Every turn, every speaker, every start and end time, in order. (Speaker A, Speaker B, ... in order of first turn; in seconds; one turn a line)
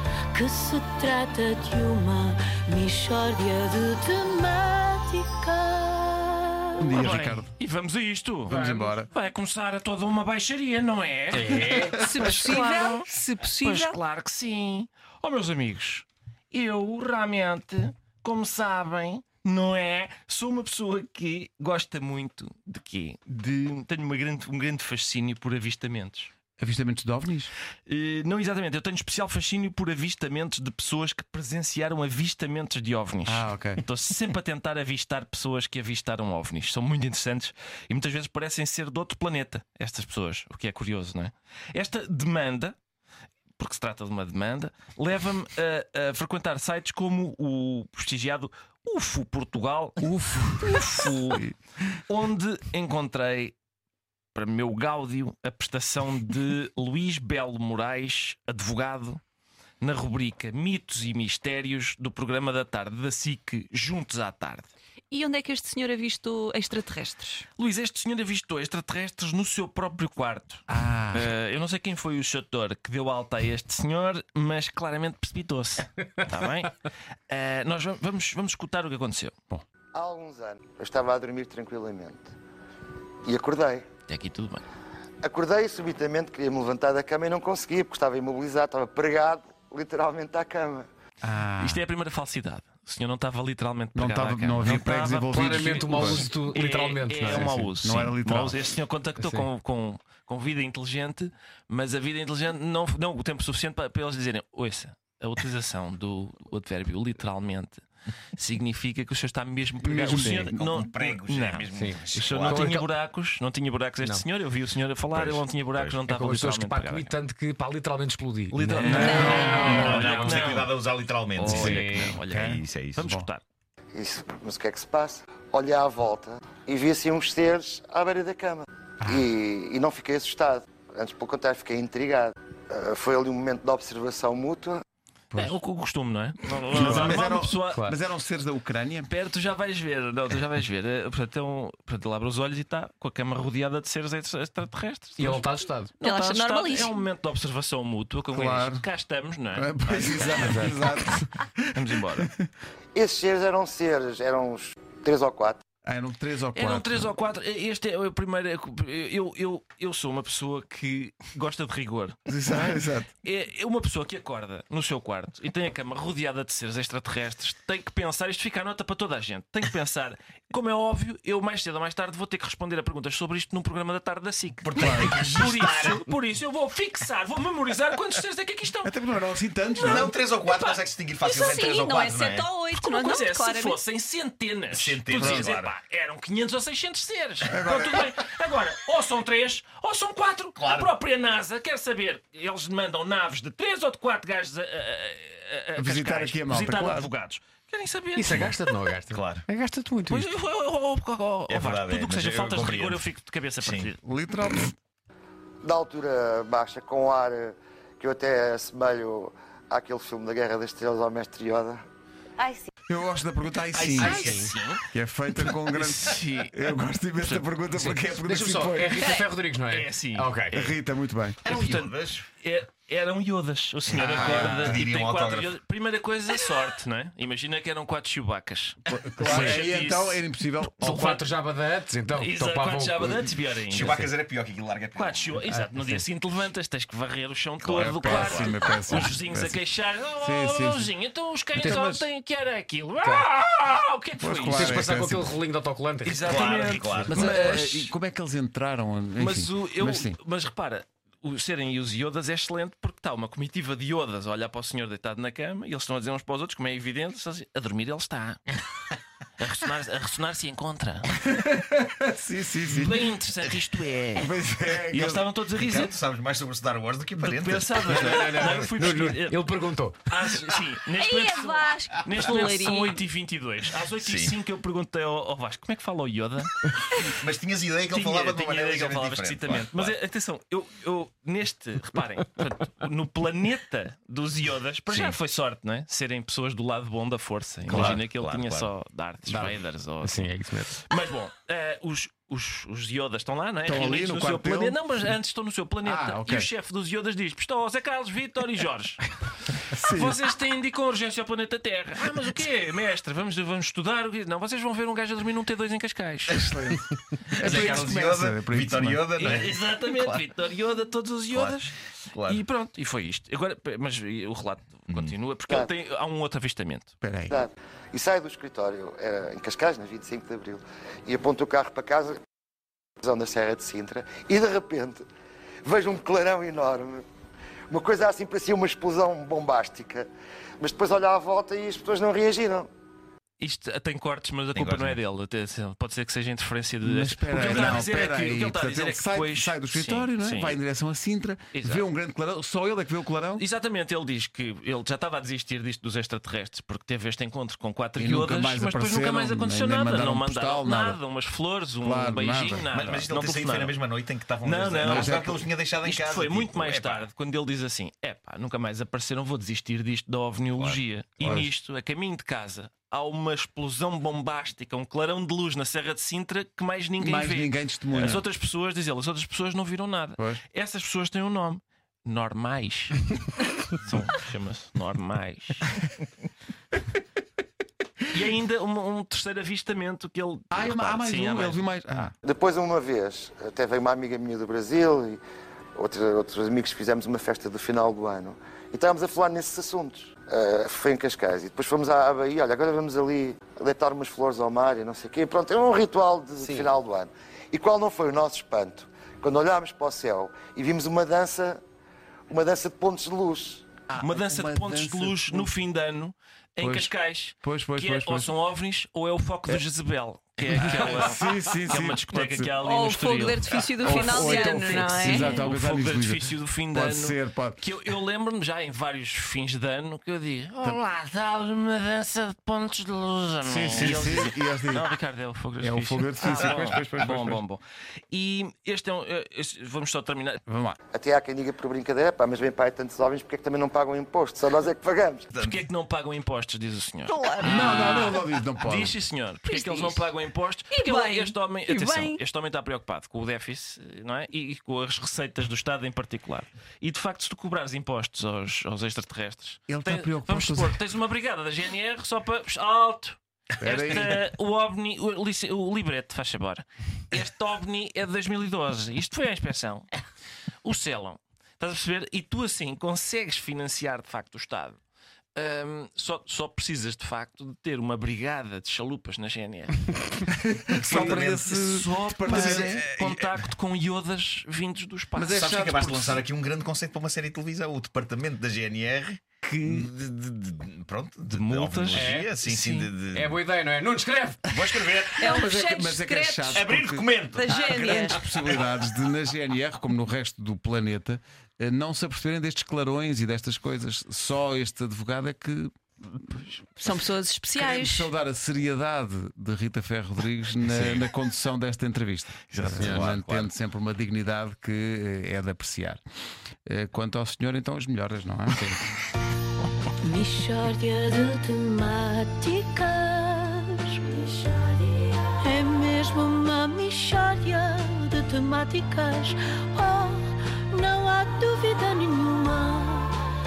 Speaker A: 0.3-6.8
Speaker B: 6.8-7.5
Speaker C: 6.9-26.3
Speaker B: 8.5-9.1
Speaker D: 8.5-8.9
Speaker D: 11.3-12.0
Speaker B: 11.5-12.7
Speaker E: 12.0-14.0
Speaker A: 12.5-13.1
Speaker B: 26.6-27.5
Speaker C: 27.9-42.8
Speaker B: 33.2-33.8
Speaker C: 43.6-51.5
Speaker B: 50.0-51.5
Speaker C: 52.1-53.5
Speaker C: 54.4-59.2
Speaker C: 59.8-64.7
Speaker E: 65.1-67.5
Speaker C: 67.6-79.4
Speaker B: 70.7-71.3
Speaker F: 79.9-82.3
Speaker F: 83.3-83.9
Speaker C: 84.1-84.6
Speaker F: 85.2-90.9
Speaker B: 91.2-91.8
Speaker C: 91.6-107.8
Speaker B: 94.0-96.3
Speaker D: 94.6-97.8
Speaker B: 97.8-98.6
Speaker D: 99.2-99.5
Speaker C: 108.4-117.1
Speaker B: 109.8-110.8
Speaker D: 110.1-110.5
Speaker G: 110.4-112.8
Speaker D: 111.7-112.8
Speaker G: 115.1-116.1
Speaker D: 116.1-120.6
Speaker C: 118.5-120.7
Speaker B: 118.8-120.0
Speaker E: 119.0-119.8
Speaker G: 119.1-123.1
Speaker C: 121.4-123.4
Speaker D: 121.4-122.2
Speaker B: 122.2-123.3
Speaker F: 124.0-134.8
Speaker B: 129.0-129.3
Speaker B: 135.3-135.6
Speaker C: 135.3-137.8
Speaker B: 136.6-139.1
Speaker D: 136.7-137.2
Speaker C: 139.1-150.8
Speaker D: 145.2-146.0
Speaker E: 146.0-147.0
Speaker B: 148.3-148.9
Speaker B: 149.5-152.5
Speaker D: 150.3-150.8
Speaker C: 151.7-152.3
Speaker F: 152.9-155.6
Speaker B: 155.8-157.1
Speaker C: 156.6-178.9
Speaker B: 162.3-163.1
Speaker G: 174.7-176.1
Speaker B: 174.8-175.2
Speaker B: 178.8-180.1
Speaker G: 179.8-182.6
Speaker C: 180.4-180.8
Speaker E: 181.2-183.8
Speaker C: 182.7-198.6
Speaker G: 184.7-185.7
Speaker B: 185.1-185.5
Speaker B: 187.5-188.1
Speaker G: 190.6-190.9
Speaker B: 195.8-197.1
Speaker D: 198.2-200.3
Speaker G: 198.4-199.5
Speaker C: 200.1-204.0
Speaker G: 201.5-203.1
Speaker G: 203.6-203.9
Speaker B: 204.0-204.8
Speaker F: 205.6-211.8
Speaker B: 212.9-214.4
Speaker C: 213.8-216.6
Speaker G: 213.8-214.1
Speaker D: 214.0-214.5
Speaker B: 214.9-219.1
Speaker C: 217.2-217.6
Speaker D: 217.8-220.6
Speaker C: 219.6-220.8
Speaker B: 220.5-221.5
Speaker G: 221.4-222.2
Speaker C: 221.4-230.2
Speaker G: 223.9-225.6
Speaker B: 224.0-224.8
Speaker B: 228.9-231.2
Speaker D: 229.2-229.6
Speaker D: 230.8-233.3
Speaker C: 230.9-231.2
Speaker C: 232.2-234.1
Speaker G: 233.7-235.6
Speaker C: 234.9-244.9
Speaker D: 235.7-236.0
Speaker G: 237.6-239.1
Speaker B: 237.8-239.6
Speaker B: 240.2-240.9
Speaker D: 241.6-241.9
Speaker B: 241.6-242.1
Speaker D: 243.0-243.3
Speaker B: 244.2-245.3
Speaker D: 244.4-246.5
Speaker C: 246.0-247.9
Speaker G: 246.2-247.4
Speaker B: 247.1-250.2
Speaker C: 249.2-258.6
Speaker C: 259.4-261.2
Speaker B: 261.3-263.1
Speaker C: 262.7-264.3
Speaker B: 264.2-265.3
Speaker C: 264.9-266.0
Speaker G: 265.6-268.7
Speaker C: 267.2-269.5
Speaker D: 267.8-270.3
Speaker C: 270.1-276.5
Speaker E: 270.9-273.0
Speaker G: 273.9-274.4
Speaker G: 277.1-279.9
Speaker C: 277.9-299.1
Speaker G: 287.7-288.7
Speaker D: 289.3-290.8
Speaker B: 293.7-294.8
Speaker B: 295.9-296.5
Speaker B: 299.7-300.2
Speaker C: 299.7-306.5
Speaker B: 306.3-309.1
Speaker C: 307.4-307.8
Speaker G: 307.4-310.3
Speaker C: 309.2-316.9
Speaker G: 311.3-312.4
Speaker B: 317.0-317.4
Speaker F: 317.3-322.2
Speaker F: 323.0-325.0
Speaker F: 325.6-327.0
Speaker F: 327.7-330.1
Speaker F: 330.6-332.7
Speaker C: 333.4-340.6
Speaker G: 334.5-335.0
Speaker B: 336.8-343.4
Speaker C: 341.6-341.8
Speaker C: 343.4-353.8
Speaker B: 348.0-351.0
Speaker B: 351.8-352.7
Speaker G: 352.7-357.1
Speaker C: 354.4-373.1
Speaker B: 354.8-355.5
Speaker G: 360.6-360.8
Speaker B: 361.2-361.5
Speaker B: 367.0-368.3
Speaker B: 370.2-370.4
Speaker C: 373.8-375.7
Speaker C: 378.1-381.7
Speaker B: 380.5-382.1
Speaker F: 382.2-385.2
Speaker F: 385.8-401.6
Speaker D: 396.4-396.7
Speaker F: 402.3-403.7
Speaker B: 403.9-405.5
Speaker C: 404.0-430.4
Speaker B: 406.6-408.3
Speaker B: 410.5-412.6
Speaker E: 412.6-415.4
Speaker B: 413.8-417.6
Speaker B: 423.4-424.9
Speaker B: 425.6-427.4
Speaker G: 426.4-426.8
Speaker B: 430.5-430.8
Speaker F: 430.9-435.3
Speaker G: 435.3-435.6
Speaker C: 435.4-459.9
Speaker E: 437.1-438.1
Speaker B: 437.4-439.0
Speaker E: 439.5-440.1
Speaker E: 440.7-442.2
Speaker B: 449.7-450.8
Speaker B: 453.6-454.2
Speaker C: 460.6-464.8
Speaker C: 465.4-469.9
Speaker B: 470.3-472.9
Speaker G: 470.7-471.5
Speaker C: 470.8-476.2
Speaker G: 472.3-473.5
Speaker B: 475.2-476.2
Speaker G: 475.3-483.4
Speaker C: 479.4-479.9
Speaker C: 481.3-482.9
Speaker D: 481.9-482.3
Speaker D: 483.1-484.5
Speaker G: 484.5-485.4
Speaker E: 485.2-486.6
Speaker B: 485.2-495.8
Speaker G: 486.5-488.6
Speaker E: 487.3-488.2
Speaker E: 496.8-498.1
Speaker B: 497.6-506.0
Speaker G: 502.6-503.5
Speaker D: 502.8-503.1
Speaker B: 506.7-508.8
Speaker A: 510.0-523.2